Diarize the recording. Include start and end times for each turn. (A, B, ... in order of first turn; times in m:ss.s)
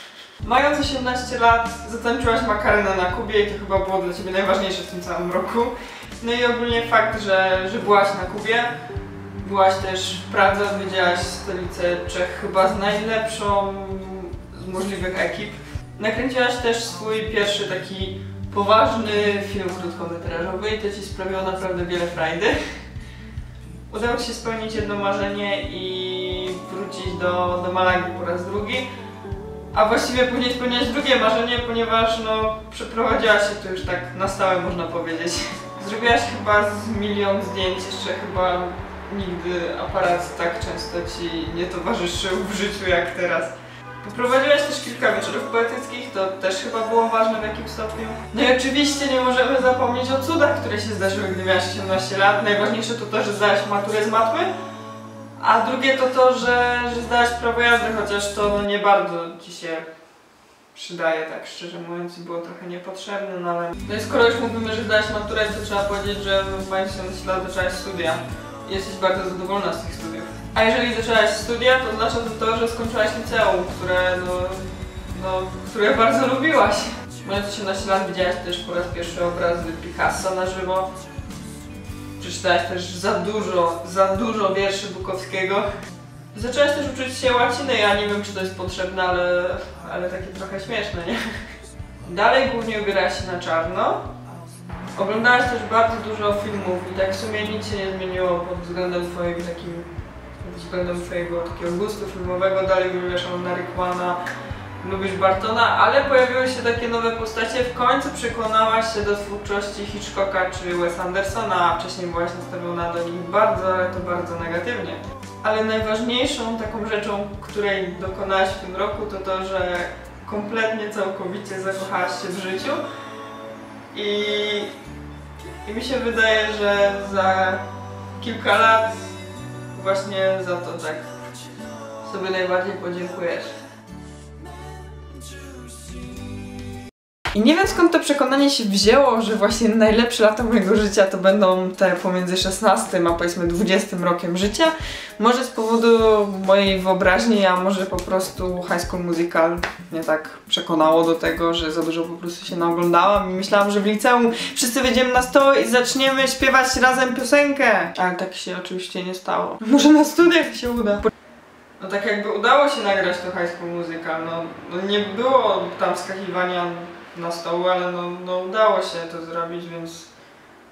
0:00.4-0:08.7 A
0:09.4-0:22.6 A
0:23.9-0:28.9 A
0:29.7-0:54.5 A
0:55.4-0:59.9 A
1:00.7-1:20.9 A
1:22.2-1:25.7 A
1:26.3-1:31.2 A
1:32.0-1:34.0 A
1:35.0-1:39.9 A
1:40.4-1:44.2 A
1:44.8-2:02.8 A
2:03.9-2:04.7 A
2:05.6-2:07.6 A
2:08.2-2:09.1 A
2:09.7-2:11.1 A
2:12.0-2:13.5 A
2:17.3-2:41.1 A
2:41.8-2:50.1 A